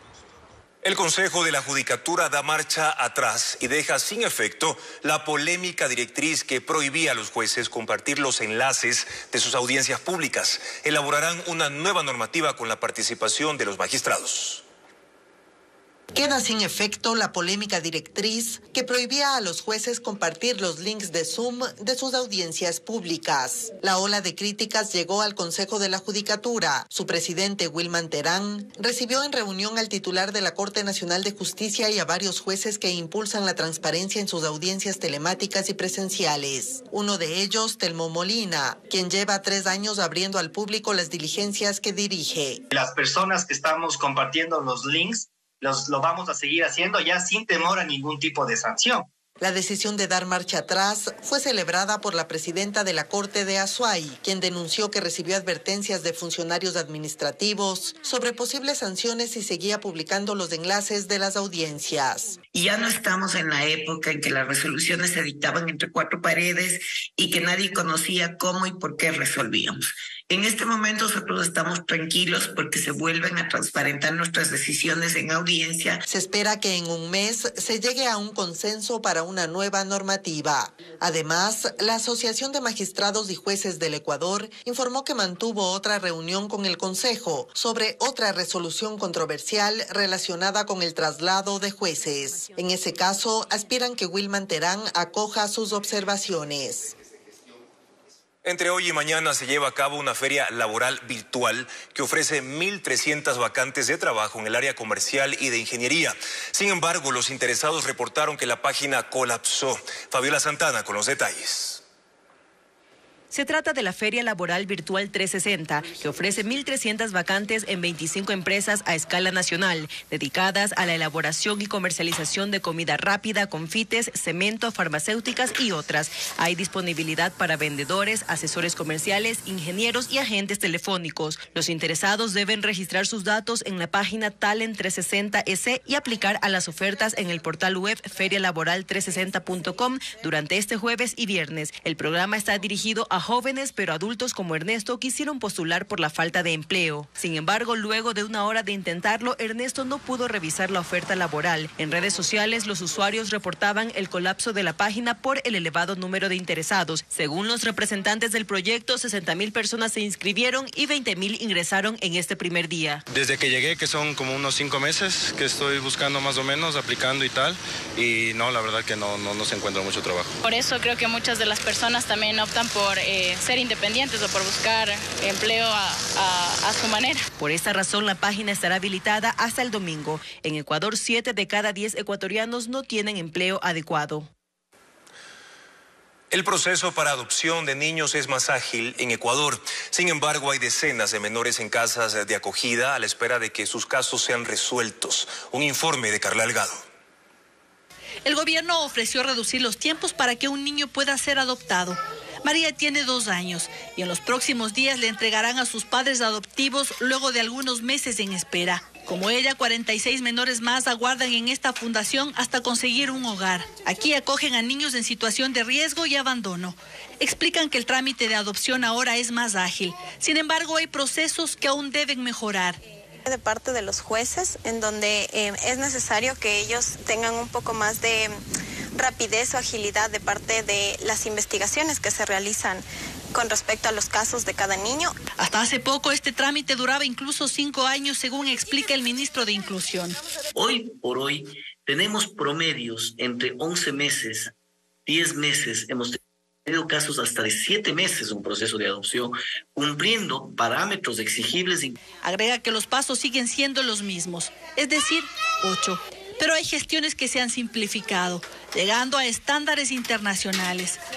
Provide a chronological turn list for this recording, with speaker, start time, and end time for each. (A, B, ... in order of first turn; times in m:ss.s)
0:00.8-0:14.6 A
0:16.1-0:42.6 B
0:42.7-0:49.1 C
0:49.4-1:02.4 B
1:02.5-1:16.0 D
1:16.1-1:36.9 B
1:38.4-1:51.8 A
1:53.3-2:43.0 E
2:43.1-2:50.4 F
2:50.4-2:57.3 G
2:57.4-3:04.3 E
3:06.3-3:16.8 A
3:18.2-3:42.8 H
3:43.2-3:48.4 I
3:48.9-3:55.1 I
3:55.4-4:00.2 H
4:00.5-4:04.5 J
4:05.0-4:12.0 J
4:12.2-4:21.0 H